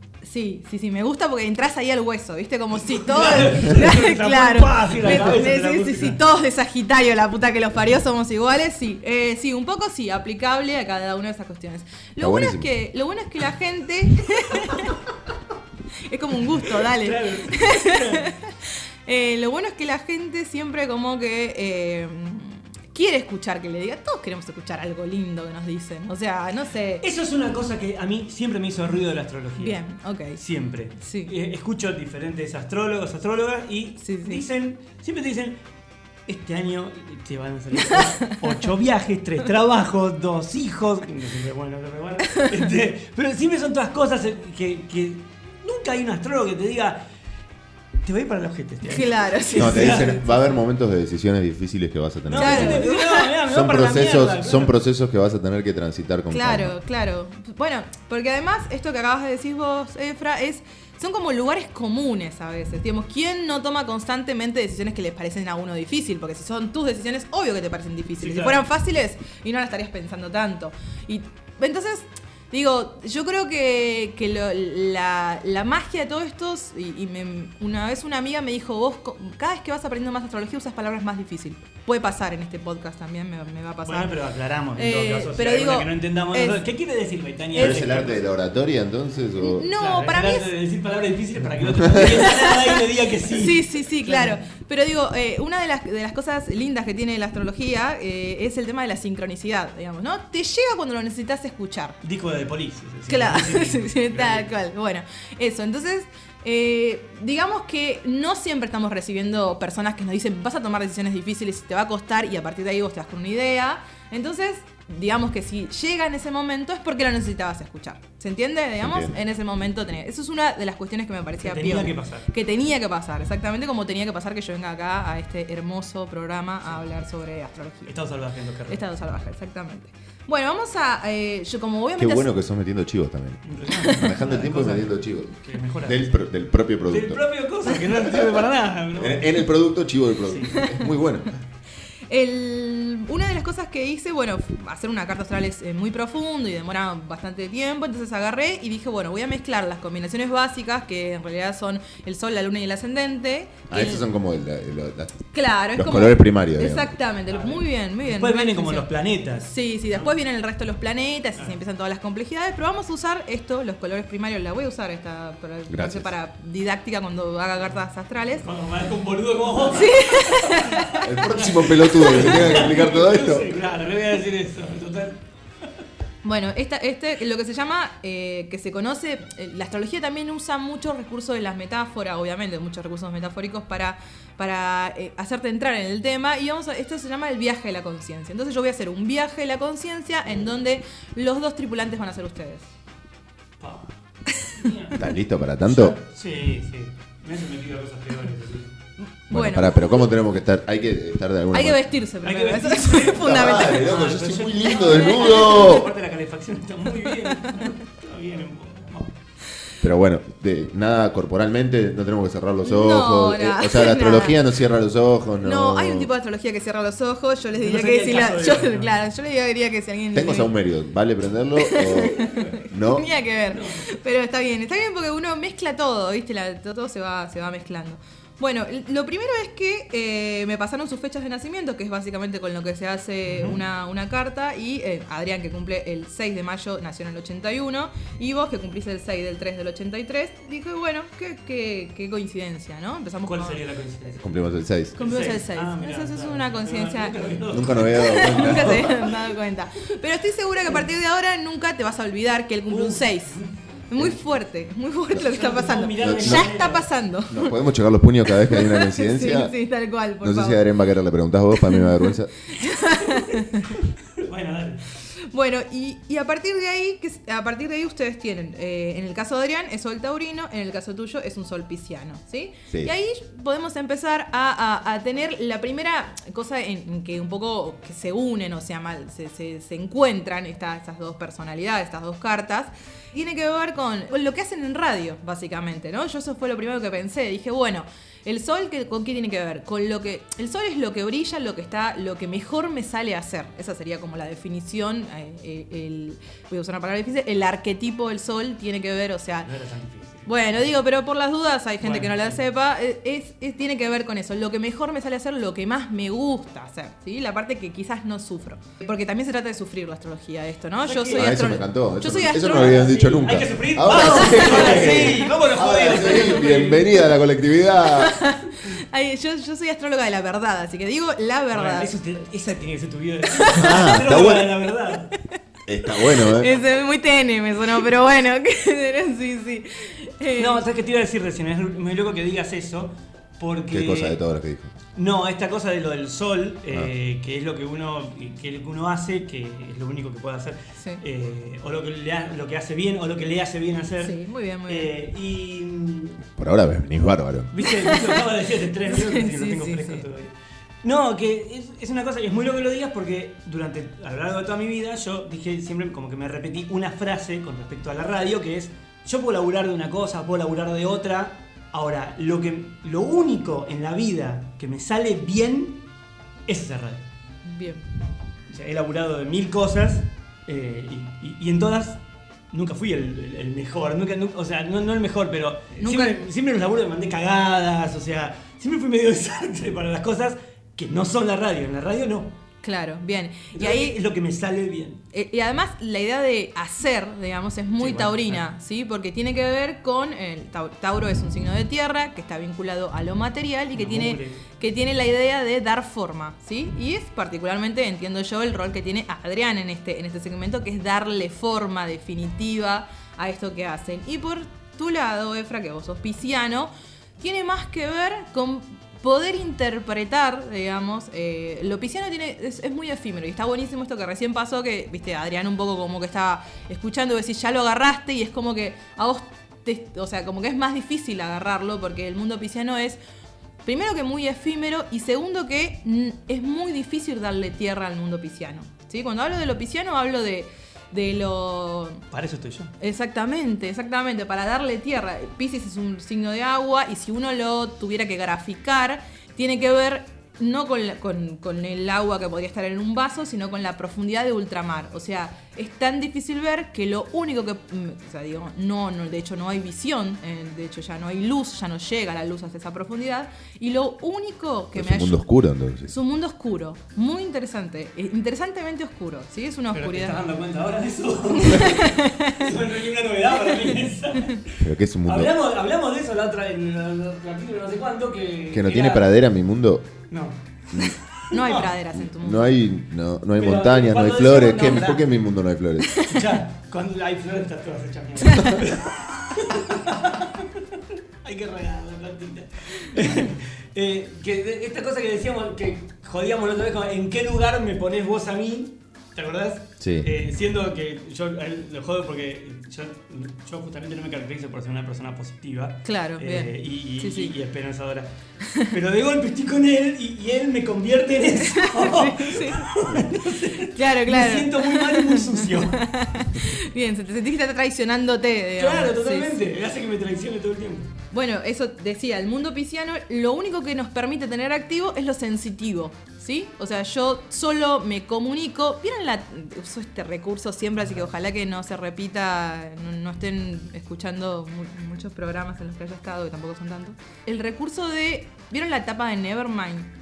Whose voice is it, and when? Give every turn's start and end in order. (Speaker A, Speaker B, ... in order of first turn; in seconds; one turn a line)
Speaker A: 0.2-15.0
Speaker B: 2.9-6.2
Speaker C: 12.2-12.7
Speaker A: 16.1-27.0
Speaker B: 16.8-18.2
Speaker B: 27.0-29.8
Speaker A: 29.6-30.4
Speaker B: 30.4-35.6
Speaker A: 31.0-31.3
Speaker A: 34.0-34.4
Speaker B: 36.3-47.0
Speaker A: 37.9-38.4
Speaker B: 48.0-50.2
Speaker A: 48.9-50.3
Speaker C: 49.6-52.9
Speaker B: 52.3-54.7
Speaker A: 52.4-53.3
Speaker C: 53.4-56.8
Speaker A: 56.3-84.2
Speaker B: 68.2-68.6
Speaker B: 83.8-88.2
Speaker A: 84.8-86.6
Speaker A: 87.5-88.0
Speaker C: 87.5-89.7
Speaker A: 89.4-90.5
Speaker B: 89.8-94.3
Speaker C: 91.8-92.1
Speaker A: 92.0-92.8
Speaker A: 93.3-102.0
Speaker B: 102.0-104.5
Speaker A: 103.1-127.9
Speaker C: 118.8-119.2
Speaker B: 121.4-122.3
Speaker B: 127.9-128.8
Speaker A: 128.7-132.3
Speaker C: 132.0-137.2
Speaker B: 133.4-136.1
Speaker A: 133.7-134.1
Speaker B: 136.9-139.5
Speaker C: 137.9-138.3
Speaker C: 138.9-141.3
Speaker B: 140.2-140.6
Speaker A: 140.5-140.8
Speaker A: 142.1-154.0
Speaker C: 153.7-155.2
Speaker A: 155.3-158.9
Speaker C: 155.7-156.9
Speaker B: 157.3-160.1
Speaker A: 159.4-168.5
Speaker C: 165.7-166.1
Speaker B: 168.4-175.2
Speaker A: 169.7-171.0
Speaker C: 171.0-173.6
Speaker A: 171.9-172.4
Speaker A: 176.2-192.7
Speaker B: 193.6-193.9
Speaker A: 194.3-194.7
Speaker B: 194.5-195.0
Speaker C: 194.9-196.0
Speaker B: 195.7-198.7
Speaker A: 199.0-199.9
Speaker C: 199.3-201.8
Speaker A: 201.5-203.9
Speaker B: 202.2-209.1
Speaker C: 203.2-205.9
Speaker A: 205.0-205.8
Speaker A: 207.2-207.6
Speaker C: 209.8-216.1
Speaker A: 212.6-214.4
Speaker A: 215.4-220.5
Speaker B: 217.5-219.0
Speaker C: 220.1-223.1
Speaker A: 221.6-243.6
Speaker B: 222.2-222.6
Speaker B: 223.5-223.8
Speaker B: 233.3-233.6
Speaker B: 243.2-249.1
Speaker C: 244.2-245.0
Speaker A: 245.0-247.2
Speaker C: 247.5-249.0
Speaker A: 247.9-253.4
Speaker B: 252.7-254.1
Speaker A: 253.9-257.5
Speaker B: 255.2-256.9
Speaker C: 256.0-256.5
Speaker C: 257.3-259.5
Speaker A: 258.4-260.6
Speaker C: 260.2-262.3
Speaker A: 261.6-261.9
Speaker A: 262.5-263.8
Speaker B: 263.1-263.4
Speaker B: 264.1-264.8
Speaker A: 265.3-299.5
Speaker B: 299.4-300.3
Speaker A: 300.2-312.9
Speaker B: 301.8-302.4
Speaker B: 310.8-311.4
Speaker C: 311.1-318.2
Speaker B: 312.4-317.0
Speaker A: 314.0-315.3
Speaker A: 317.9-321.9
Speaker B: 321.5-325.1
Speaker A: 323.3-324.0
Speaker C: 323.6-324.6
Speaker C: 325.7-326.6
Speaker A: 325.9-330.6
Speaker B: 330.4-334.2
Speaker C: 333.7-334.7
Speaker B: 334.9-344.1
Speaker A: 344.0-344.9
Speaker B: 344.7-346.2
Speaker C: 346.4-347.5
Speaker B: 347.5-350.3
Speaker A: 347.6-348.2
Speaker A: 348.8-350.0
Speaker B: 350.8-365.8
Speaker B: 366.5-367.0
Speaker A: 367.4-367.8
Speaker B: 368.5-372.0
Speaker B: 372.5-382.3
Speaker A: 375.8-376.2
Speaker A: 382.6-383.9
Speaker B: 383.5-385.0
Speaker A: 385.1-423.0
Speaker B: 387.8-388.4
Speaker B: 393.8-394.4
Speaker A: 423.6-432.0
Speaker B: 432.1-432.7
Speaker A: 432.8-455.2
Speaker C: 454.7-455.9
Speaker A: 455.9-460.2
Speaker B: 459.7-469.1
Speaker A: 461.4-462.5
Speaker C: 464.6-465.3
Speaker C: 468.5-469.9
Speaker B: 470.1-471.7
Speaker A: 471.3-472.6
Speaker C: 471.9-476.0
Speaker B: 473.4-475.1
Speaker A: 475.9-476.2
Speaker B: 476.1-498.1
Speaker C: 489.8-490.1
Speaker A: 495.8-497.3
Speaker A: 498.4-498.7
Speaker B: 498.7-505.8
Speaker A: 501.4-509.4
Speaker B: 508.6-510.9
Speaker A: 511.1-529.9